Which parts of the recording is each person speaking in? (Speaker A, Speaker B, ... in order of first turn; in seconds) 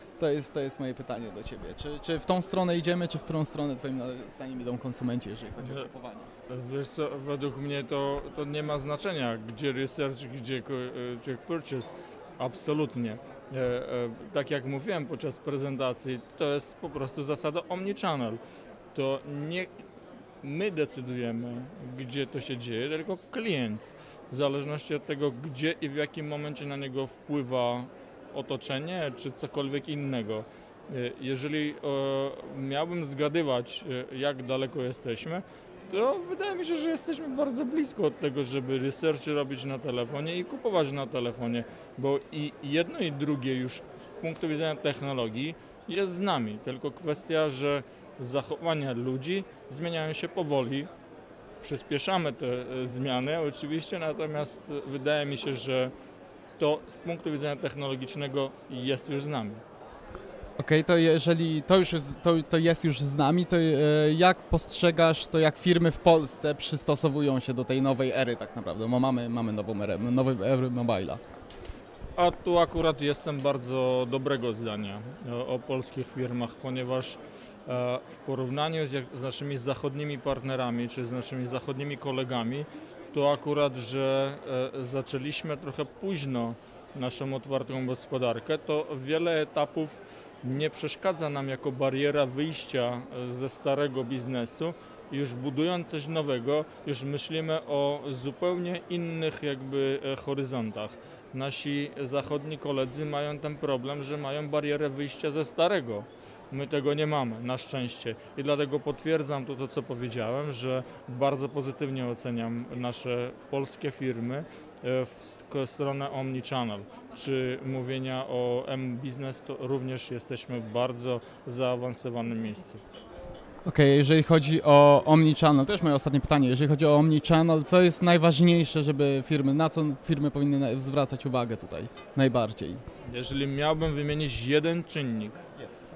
Speaker A: 0.2-6.3, 60.6-71.2, 123.7-132.8
Speaker B: 6.5-18.4, 18.9-19.7, 20.4-50.9, 51.6-55.9, 56.6-59.6, 72.2-122.8, 133.1-135.4